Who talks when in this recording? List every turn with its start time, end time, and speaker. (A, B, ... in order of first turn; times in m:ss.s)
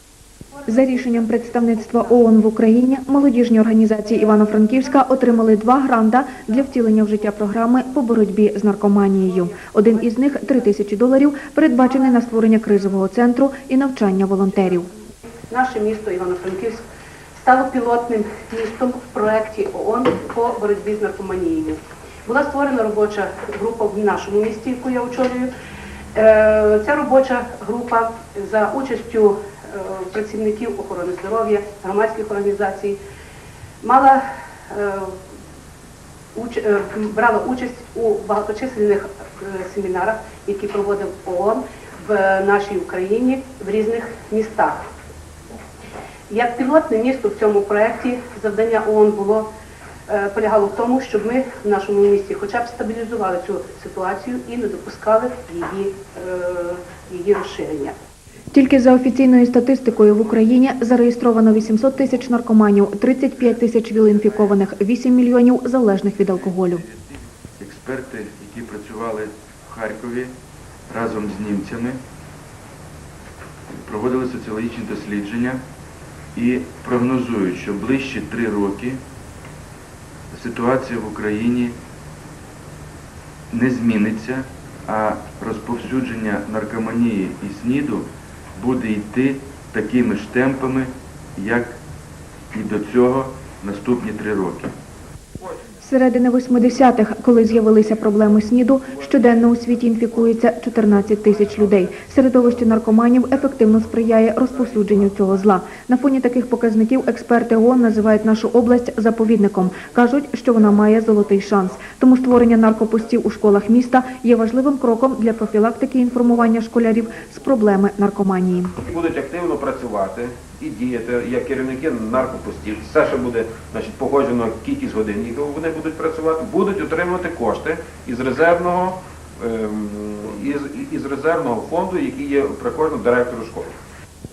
0:00.7-0:14.9 A
0:15.5-0:25.5 B
0:26.2-0:33.0 B
0:33.8-0:35.2 B
0:36.3-0:44.8 B
0:46.3-0:49.5 B
0:50.1-0:58.0 B
0:58.5-1:06.8 A
1:06.7-1:10.3 C
1:10.9-1:12.0 C
1:13.7-1:15.6 C
1:16.4-1:19.0 C
1:20.3-1:21.8 C
1:23.5-1:31.8 C
1:32.5-1:34.7 C
1:35.8-1:58.7 A
1:58.8-2:13.7 D